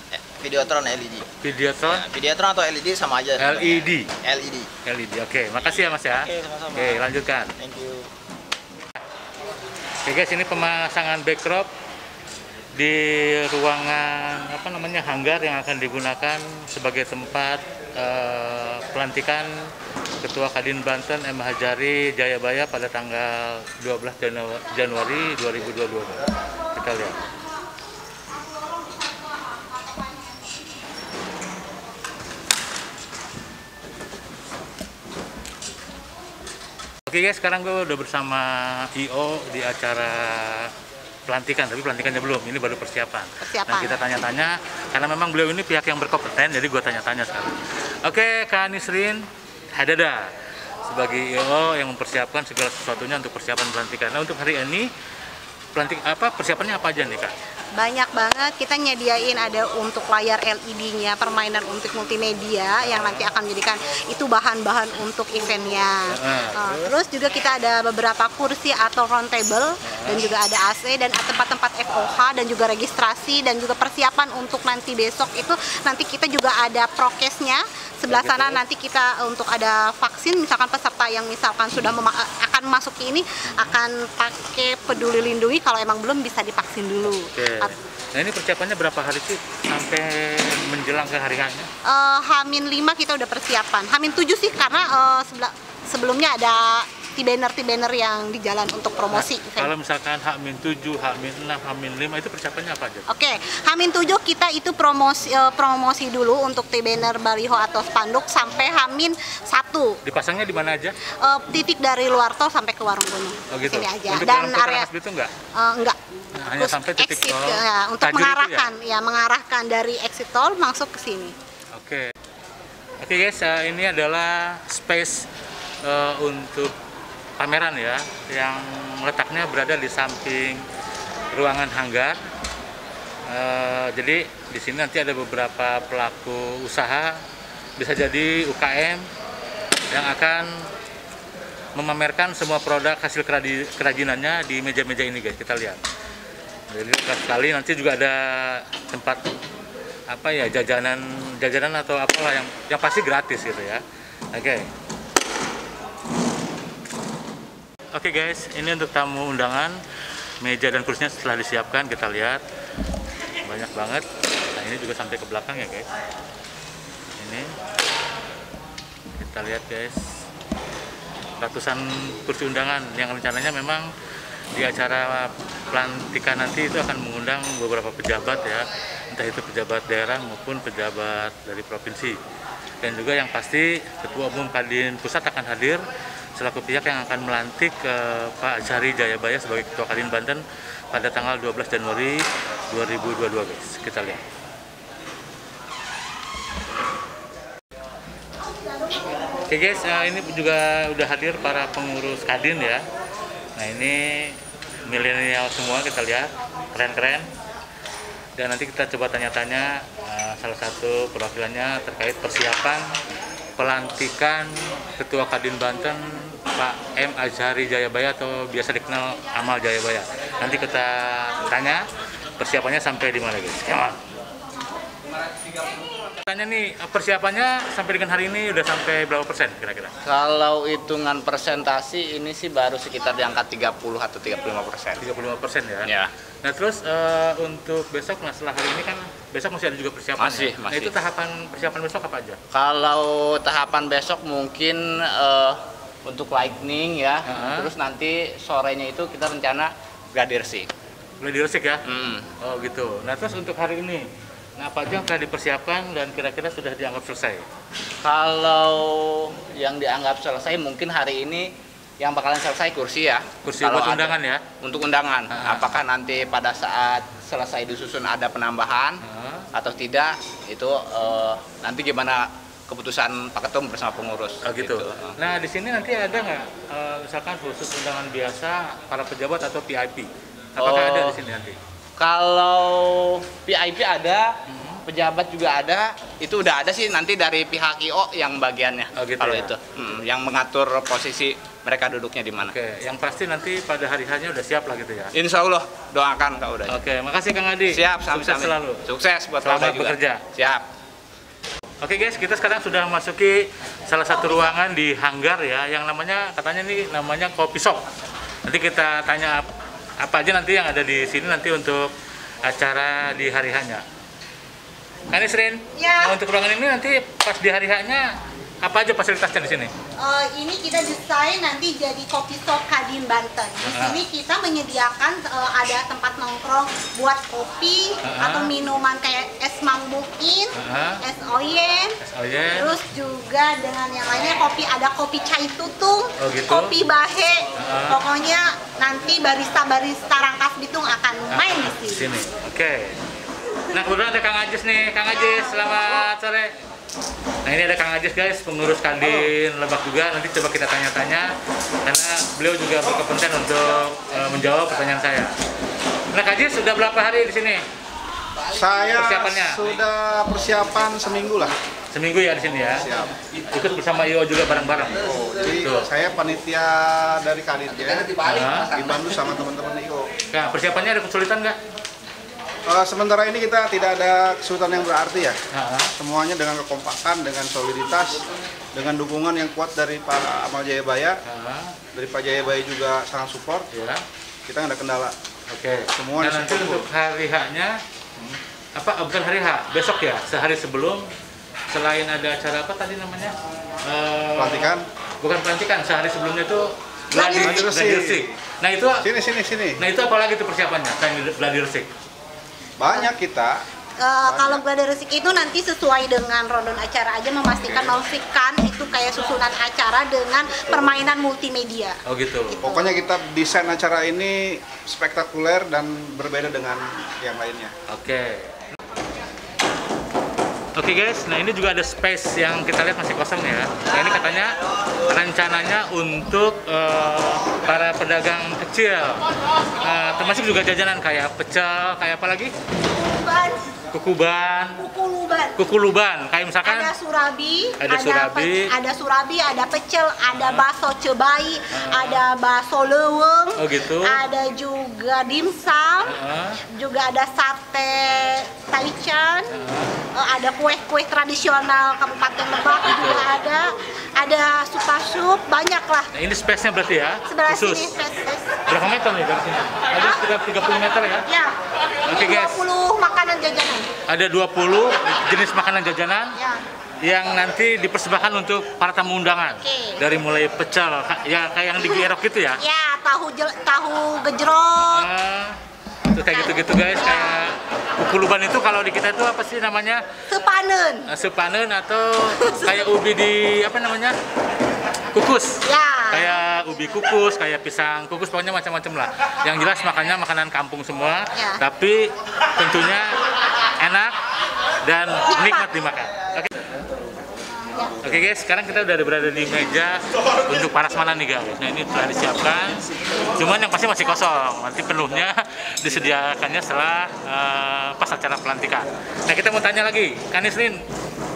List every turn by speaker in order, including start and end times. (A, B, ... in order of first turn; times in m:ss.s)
0:00.1-0:01.3 A
0:01.4-0:02.1 B
0:01.8-0:04.7 A
0:03.4-0:04.1 B
0:04.8-0:07.5 B
0:06.1-0:07.1 A
0:07.6-0:08.1 A
0:10.0-0:11.7 B
0:12.8-0:19.5 B
0:20.2-0:27.2 B
0:28.6-0:30.0 C
0:37.1-0:40.7 B
0:41.3-0:50.3 B
0:43.4-0:44.0 C
0:50.9-0:54.9 B
0:55.7-0:57.3 B
0:57.8-1:27.7 C
1:02.8-1:03.3 B
1:06.1-1:07.0 B
1:09.8-1:10.2 B
1:18.1-1:18.6 B
1:27.1-1:31.7 B
1:31.8-1:39.7 C
1:39.1-1:43.1 B
1:43.1-1:50.0 C
1:50.0-1:51.0 B
1:51.2-1:54.9 C
1:53.5-1:55.3 B
1:55.6-1:56.0 C
1:56.4-1:58.7 B
1:56.6-2:01.4 C
2:01.7-2:02.1 B
2:03.0-2:05.3 B
2:05.8-2:06.7 B
2:07.4-2:10.6 B
2:11.3-2:12.2 B
2:13.3-2:17.2 B
2:17.8-2:19.0 B
2:19.9-2:20.5 B
2:21.8-2:25.8 B
2:26.7-2:29.2 B
2:30.1-2:33.8 B
2:34.3-2:34.7 B
2:37.9-2:39.8 B
2:40.4-2:42.4 B
2:43.4-2:45.9 B
2:47.2-2:47.5 B
2:49.2-2:50.0 B
2:51.4-2:53.8 B
2:54.6-3:02.2 B
3:02.8-3:05.8 B
3:06.4-3:14.2 B
3:18.5-3:19.2 C
3:19.5-3:22.8 B
3:23.6-3:27.3 B
3:28.4-3:32.9 B
3:33.6-3:41.8 B
3:42.4-3:44.0 B
3:46.1-3:49.9 B
3:50.0-3:55.1 D
3:55.0-4:02.4 B
3:55.8-3:56.1 D
4:00.2-4:00.9 D
4:02.5-4:10.7 D
4:07.2-4:07.7 B
4:11.2-4:11.9 B
4:11.8-4:12.3 D
4:12.4-4:14.1 B
4:14.6-4:17.4 B
4:18.0-4:29.0 D
4:23.4-4:24.4 B
4:25.3-4:25.7 B
4:29.0-4:29.5 B
4:29.5-4:35.2 D
4:34.4-4:41.6 B
4:40.6-4:41.2 D
4:42.0-4:44.3 D
4:44.5-4:44.8 B
4:44.9-4:52.5 D
4:48.9-4:49.5 B
4:52.4-4:55.1 B
4:55.2-4:56.7 D
4:56.7-4:58.8 B
4:57.7-5:00.7 D
4:59.4-5:00.2 B
5:01.8-5:07.8 B
5:08.5-5:11.9 B
5:12.4-5:13.8 B
5:15.1-5:18.1 B
5:15.8-5:16.2 C
5:18.6-5:19.7 B
5:20.0-5:42.1 C
5:23.6-5:24.0 B
5:28.0-5:28.5 B
5:30.6-5:31.0 B
5:32.0-5:32.8 B
5:36.2-5:36.8 B
5:37.6-5:38.0 B
5:41.3-5:43.0 B
5:43.7-5:46.5 B
5:45.1-5:46.0 C
5:47.4-5:51.3 B
5:51.8-5:55.3 B
5:56.1-5:57.6 B
5:58.5-6:01.5 E
5:59.0-5:59.6 B
6:01.9-6:02.9 B
6:02.8-6:03.1 E
6:03.5-6:05.0 B
6:05.0-6:08.2 E
6:05.6-6:05.9 B
6:07.7-6:09.2 D
6:08.2-6:08.7 B
6:08.7-6:10.1 E
6:10.3-6:11.6 B
6:12.7-6:15.4 E
6:15.5-6:15.9 B
6:16.0-6:18.2 E
6:18.8-6:21.2 E
6:21.2-6:21.7 B
6:22.0-6:23.6 E
6:23.7-6:24.0 B
6:24.5-6:25.1 E
6:25.5-6:31.1 B
6:26.0-6:26.8 E
6:31.7-6:33.4 B
6:33.9-6:39.1 B
6:34.4-6:34.8 E
6:37.1-6:37.6 C
6:37.3-6:38.3 E
6:39.0-6:39.8 E
6:39.8-6:41.9 B
6:42.8-6:43.6 E
6:44.0-6:53.0 C
6:44.2-6:44.6 E
6:47.6-6:48.0 E
6:50.7-6:51.0 E
6:52.1-6:52.6 B
6:52.6-6:57.7 E
6:57.9-6:58.5 B
7:00.8-7:04.6 B
7:05.1-7:09.2 B
7:09.8-7:12.5 B
7:12.9-7:13.7 C
7:13.9-7:14.8 B
7:14.8-7:15.6 C
7:15.6-7:16.9 B
7:16.6-7:26.2 C
7:17.8-7:18.7 B
7:20.3-7:20.7 B
7:21.7-7:22.2 B
7:23.6-7:24.2 B
7:26.0-7:26.6 B
7:26.7-7:29.6 C
7:29.5-7:29.9 B
7:30.2-7:36.1 C
7:32.8-7:33.3 B
7:36.1-7:37.9 B
7:37.3-7:38.8 C
7:38.7-7:41.3 B
7:39.9-7:40.2 C
7:41.3-7:41.5 C
7:42.1-7:43.9 C
7:42.1-7:42.7 B
7:44.1-7:46.4 B
7:46.4-7:46.6 C
7:47.0-7:52.6 B
7:49.6-7:50.0 C
7:52.6-7:55.1 C
7:54.9-7:55.6 B
7:56.1-8:00.0 B
7:56.3-7:57.4 C
8:00.3-8:01.1 C
8:01.1-8:04.2 B
8:02.3-8:02.8 C
8:05.1-8:13.1 B
8:05.6-8:06.4 C
8:11.3-8:11.6 C
8:13.8-8:14.2 B
8:14.8-8:16.5 B
8:15.3-8:15.7 C
8:17.7-8:18.0 C
8:18.0-8:22.8 B
8:23.3-8:30.8 B